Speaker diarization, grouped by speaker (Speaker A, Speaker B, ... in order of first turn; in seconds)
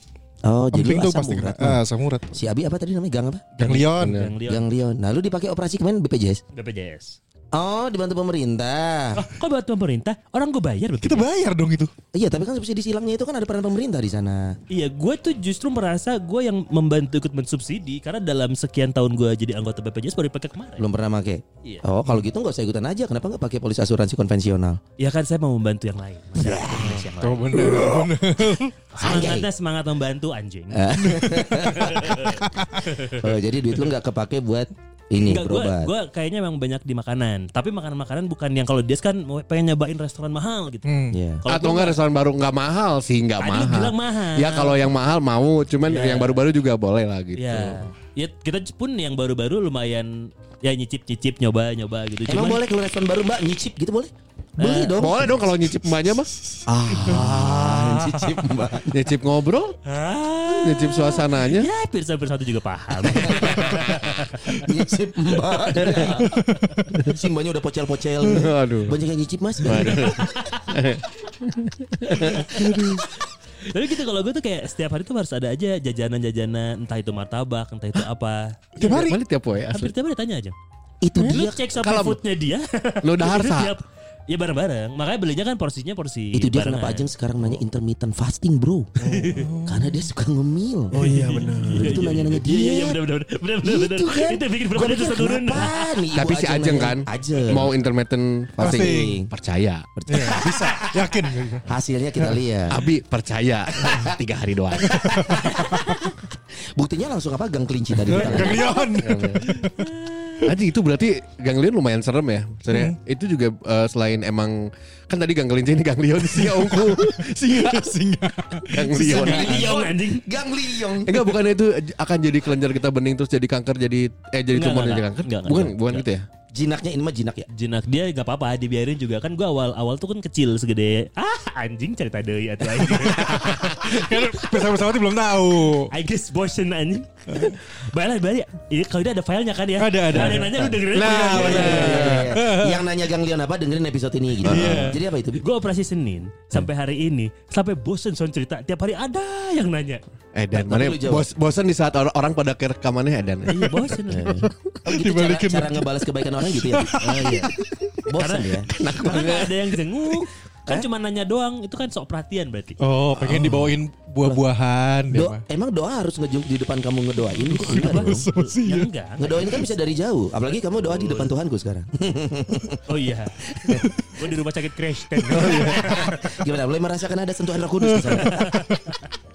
Speaker A: 0.4-1.8, 2.3-3.5, 4.5-6.4, 7.5-9.2, 12.1-14.6, 20.8-24.8, 26.4-27.0, 27.5-28.0, 29.0-29.5, 30.7-35.9, 41.1-41.4, 52.3-55.4, 56.7-59.0, 63.0-66.4, 66.9-70.1, 81.0-81.6, 86.3-88.9, 89.6-91.0, 91.7-93.0, 93.6-97.7, 98.6-99.3, 100.0-100.7, 101.6-102.8, 103.8-104.2, 104.8-106.1, 106.8-108.7, 118.9-121.3, 126.5-127.5, 140.2-140.7, 141.3-145.4, 150.5-151.3, 154.1-157.0, 158.0-158.7, 165.1-168.2, 169.2-172.8, 173.4-173.9, 175.5-178.5
Speaker B: 0.7-2.3, 3.6-4.2, 11.0-11.9, 26.7-28.7, 31.0-31.6, 40.8-41.2, 66.2-66.8, 78.9-79.1, 89.3-90.1, 91.0-91.7, 98.6-99.2, 100.1-101.7, 105.1-105.9, 108.0-109.8, 116.3-119.5, 132.8-135.9, 137.3-137.6, 139.8-140.7, 141.5-142.8, 144.4-145.0, 154.9-155.9, 156.5-157.5, 162.8-165.4, 167.4-168.9, 175.4-175.8, 177.8-178.2
Speaker C: 3.6-4.3, 41.5-47.8, 55.0-56.3, 58.9-59.8, 60.5-61.7, 65.8-66.1, 68.2-69.0, 69.6-73.0, 78.8-79.9, 81.7-82.2, 83.0-83.7, 89.0-89.4, 90.9-92.0, 96.1-99.9, 102.7-105.4, 108.2-109.4, 110.4-117.9, 118.6-119.7, 121.0-126.2, 140.9-142.3, 144.5-144.8, 150.3-154.4, 158.7-159.6, 175.4-175.7
Speaker D: 4.0-4.6, 6.5-7.2, 9.2-11.3, 14.7-20.8, 25.0-27.8, 28.9-30.9, 31.6-33.2, 35.2-40.9, 41.4-42.0, 43.4-44.9, 45.8-46.4, 47.4-52.6, 54.6-55.3, 57.0-58.3, 59.9-64.6, 65.8-66.4, 69.9-70.6, 72.2-72.6, 73.7-79.1, 79.7-80.5, 81.2-87.1, 89.0-89.5, 91.0-95.9, 109.6-110.4, 119.0-120.2, 124.5-126.0, 127.5-134.6, 135.9-142.2, 145.4-150.0, 153.5-154.5, 157.0-157.5, 158.1-162.8, 167.6-169.5, 170.9-171.3, 172.9-176.2, 178.2-179.0